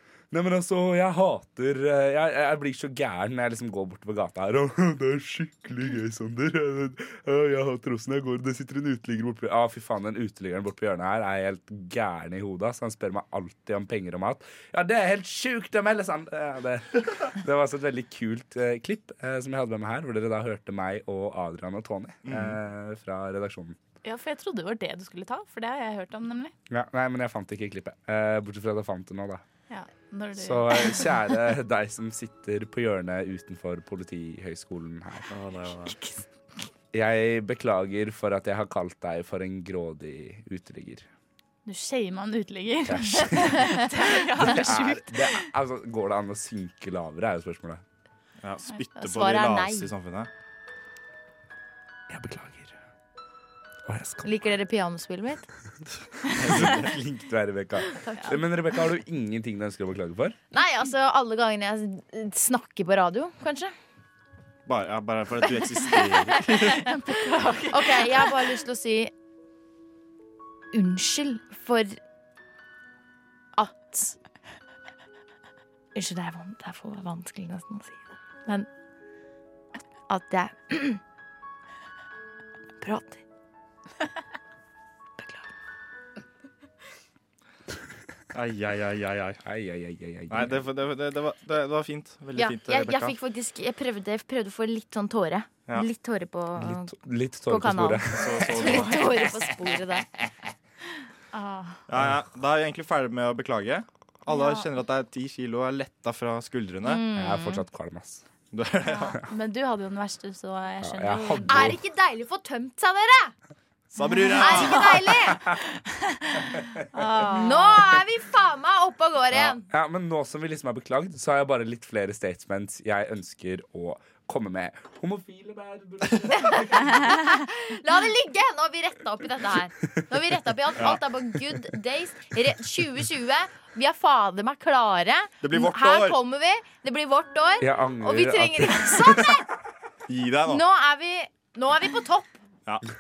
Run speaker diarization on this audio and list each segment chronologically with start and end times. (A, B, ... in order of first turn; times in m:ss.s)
0:00.3-0:23.8 A
0:22.2-0:22.6 B
0:24.0-0:26.5 C
0:26.7-0:29.4 A
0:29.7-0:31.2 C
0:30.4-0:35.3 A
0:35.3-0:36.0 B
0:35.8-0:36.3 C
0:36.9-0:41.1 A
0:41.7-0:45.4 C
0:42.9-0:43.8 A
0:44.4-0:47.8 A
0:48.4-0:50.3 B
0:49.0-0:49.9 D
0:52.1-0:52.7 A
0:53.9-0:54.3 A
0:54.2-0:55.4 D
0:56.4-0:57.0 B
0:56.4-1:00.4 A
0:58.1-0:58.4 D
1:00.5-1:03.7 D
1:04.7-1:06.9 B
1:06.5-1:06.8 D
1:06.5-1:08.4 C
1:07.7-1:09.1 D
1:10.7-1:12.0 D
1:13.6-1:14.2 D
1:16.0-1:18.7 D
1:20.1-1:21.0 D
1:22.8-1:23.2 D
1:28.3-1:29.4 B
1:29.5-1:30.6 A
1:30.3-1:33.2 B
1:32.4-1:36.9 D
1:36.6-1:39.3 A
1:37.5-1:40.1 D
1:38.1-1:39.2 B
1:41.3-1:41.8 C
1:41.9-1:47.0 B
1:44.3-1:44.6 C
1:46.9-1:47.6 D
1:47.2-1:48.2 A
1:48.5-1:49.2 B
1:48.9-1:51.8 C
1:50.8-1:51.8 A
1:51.5-1:53.3 D
1:53.9-1:54.9 B
1:54.1-1:57.9 C
1:54.4-1:55.4 D
1:57.2-1:59.6 D
1:59.3-2:07.2 A
2:06.4-2:19.4 D
2:15.4-2:16.2 B
2:17.6-2:19.3 A
2:20.1-2:20.6 B
2:20.5-2:22.3 D